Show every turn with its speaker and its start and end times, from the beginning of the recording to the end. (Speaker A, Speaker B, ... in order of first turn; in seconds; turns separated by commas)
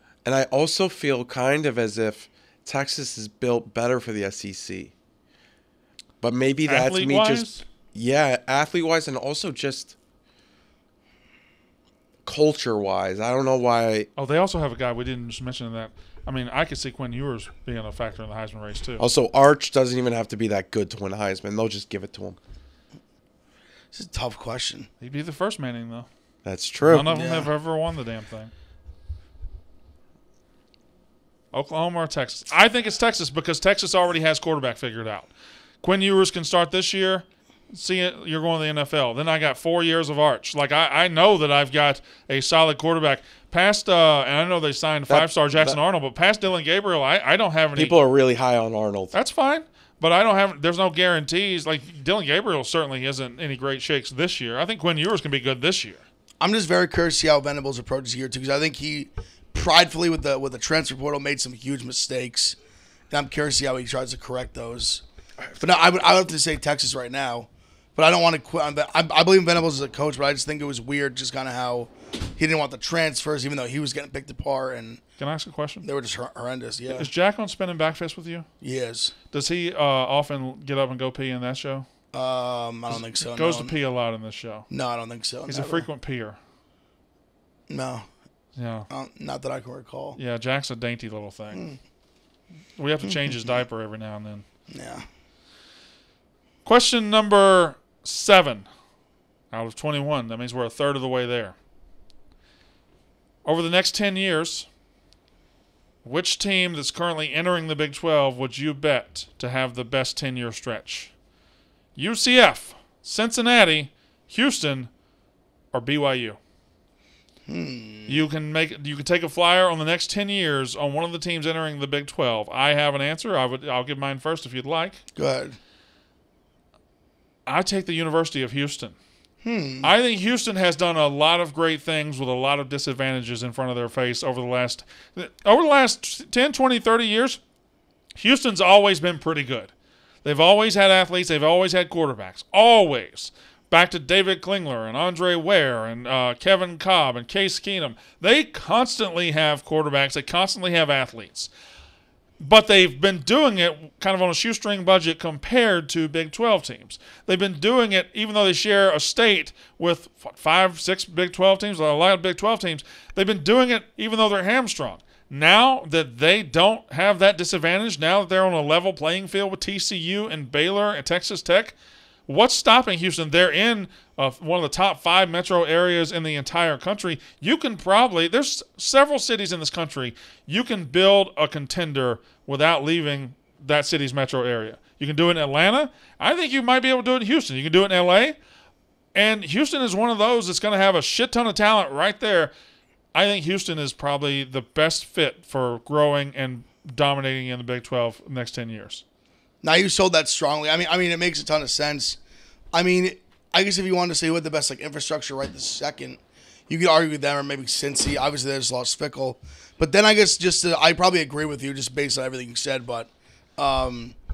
Speaker A: 0.2-4.9, Speaker A: 6.2-9.9, Speaker B: 6.6-7.6, Speaker A: 12.2-14.1, Speaker B: 14.2-19.0, Speaker A: 19.0-22.4, Speaker C: 23.9-24.9, Speaker B: 25.0-26.1, Speaker A: 26.4-27.1, Speaker B: 26.8-28.5, Speaker C: 27.1-27.5, Speaker B: 31.5-35.3, Speaker B: 35.8-48.0, Speaker A: 45.1-45.8, Speaker A: 47.8-49.1, Speaker B: 49.1-56.0, Speaker C: 56.4-62.6, Speaker C: 63.1-65.0, Speaker C: 65.6-75.0, Speaker B: 75.2-75.9, Speaker C: 75.8-77.1, Speaker B: 76.9-78.5, Speaker C: 78.6-79.1, Speaker B: 79.3-81.9, Speaker C: 82.1-83.7, Speaker B: 83.2-84.7, Speaker C: 84.7-85.9, Speaker B: 85.5-86.4, Speaker C: 87.7-88.0, Speaker B: 88.6-88.9, Speaker C: 88.9-90.2, Speaker B: 90.2-91.6, Speaker B: 92.8-94.4, Speaker C: 93.0-93.4, Speaker C: 94.7-95.0, Speaker B: 96.6-98.7, Speaker B: 99.5-101.5, Speaker B: 103.4-104.7, Speaker B: 106.0-111.1, Speaker B: 112.0-114.9, Speaker B: 115.7-116.4, Speaker C: 117.5-118.2, Speaker B: 118.1-125.0, Speaker C: 125.2-125.5, Speaker B: 127.5-128.9, Speaker C: 129.4-129.9, Speaker B: 129.8-137.4, Speaker B: 138.1-139.7, Speaker B: 140.2-151.5, Speaker B: 152.4-171.7, Speaker B: 172.3-188.4, Speaker B: 189.1-192.5, Speaker B: 193.1-199.0, Speaker C: 199.6-202.2, Speaker C: 202.7-214.1